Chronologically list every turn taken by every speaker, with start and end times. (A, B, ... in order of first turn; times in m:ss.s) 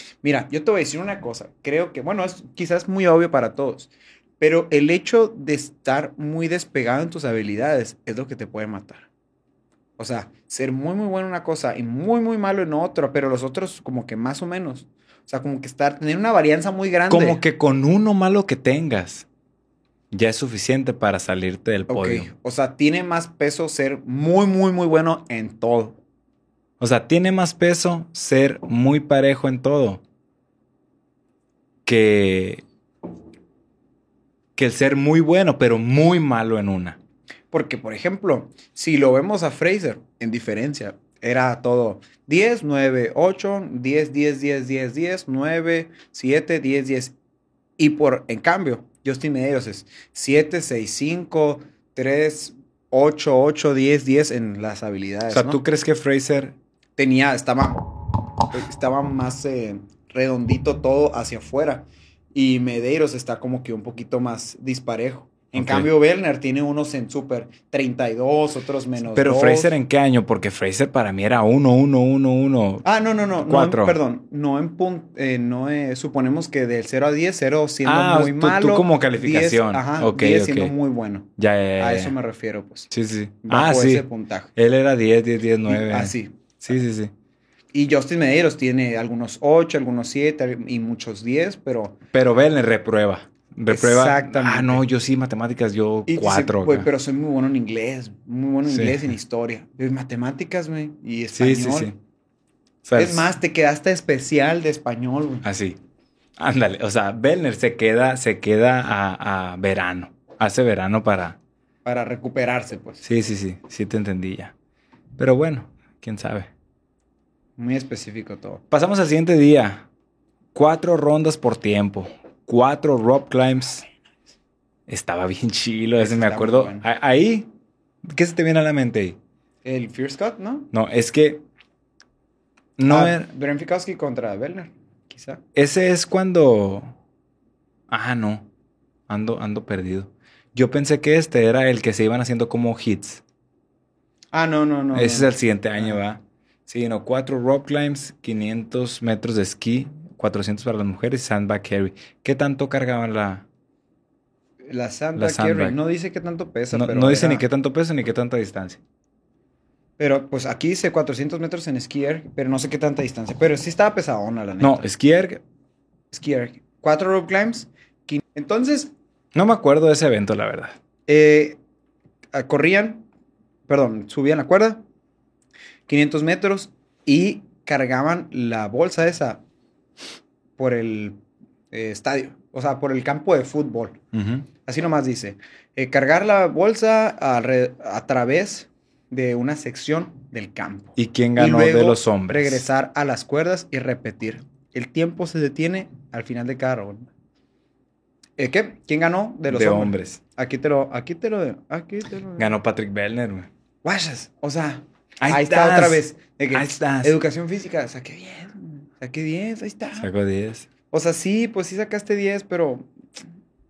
0:00.2-0:09.1 A
0:10.0-0:17.4 A
0:17.1-0:19.2 B
0:20.1-0:22.3 B
0:21.9-0:26.0 A
0:26.8-0:30.0 B
0:31.9-0:32.6 B
0:34.6-0:37.0 B
0:37.5-0:47.1 A
0:47.8-0:55.6 A
0:55.3-0:56.5 B
0:57.0-0:58.0 A
0:58.5-1:09.7 A
1:05.5-1:05.9 B
1:09.1-1:12.8 B
1:12.8-1:22.9 A
1:13.4-1:14.0 B
1:17.8-1:20.7 B
1:21.4-1:22.1 B
1:22.9-1:27.1 B
1:23.4-1:24.5 A
1:25.7-1:26.4 A
1:27.7-1:32.0 A
1:32.1-1:36.9 B
1:33.7-1:34.8 A
1:36.1-1:41.9 A
1:38.7-1:39.0 B
1:41.3-1:41.9 B
1:42.8-1:43.3 B
1:43.0-1:45.4 A
1:45.4-1:45.8 B
1:46.4-1:51.4 B
1:51.8-1:53.0 A
1:53.0-1:54.5 B
1:55.2-1:56.5 B
1:57.6-1:58.6 A
1:58.7-1:59.9 B
2:00.5-2:03.8 B
2:04.9-2:07.5 B
2:06.0-2:06.8 A
2:08.0-2:09.2 B
2:09.6-2:10.7 A
2:10.7-2:11.4 B
2:12.8-2:13.3 B
2:12.9-2:15.4 A
2:15.5-2:16.9 B
2:17.9-2:18.5 B
2:19.1-2:23.2 B
2:24.3-2:26.0 A
2:24.9-2:33.4 B
2:34.7-2:37.4 A
2:35.2-2:35.8 B
2:36.7-2:38.8 B
2:40.0-2:44.9 A
2:44.6-2:45.4 B
2:46.1-2:48.9 A
2:49.3-2:50.8 B
2:51.1-2:51.6 A
2:52.3-2:53.0 A
2:53.7-2:54.8 A
2:55.9-2:59.4 A
3:00.6-3:01.2 A
3:01.7-3:04.0 A
3:04.1-3:04.4 B
3:04.6-3:17.1 A
3:11.0-3:12.6 B
3:18.4-3:22.5 A
3:19.5-3:20.2 B
3:22.4-3:23.5 B
3:23.8-3:30.1 A
3:25.2-3:27.2 B
3:30.0-3:30.7 B
3:30.9-3:32.9 A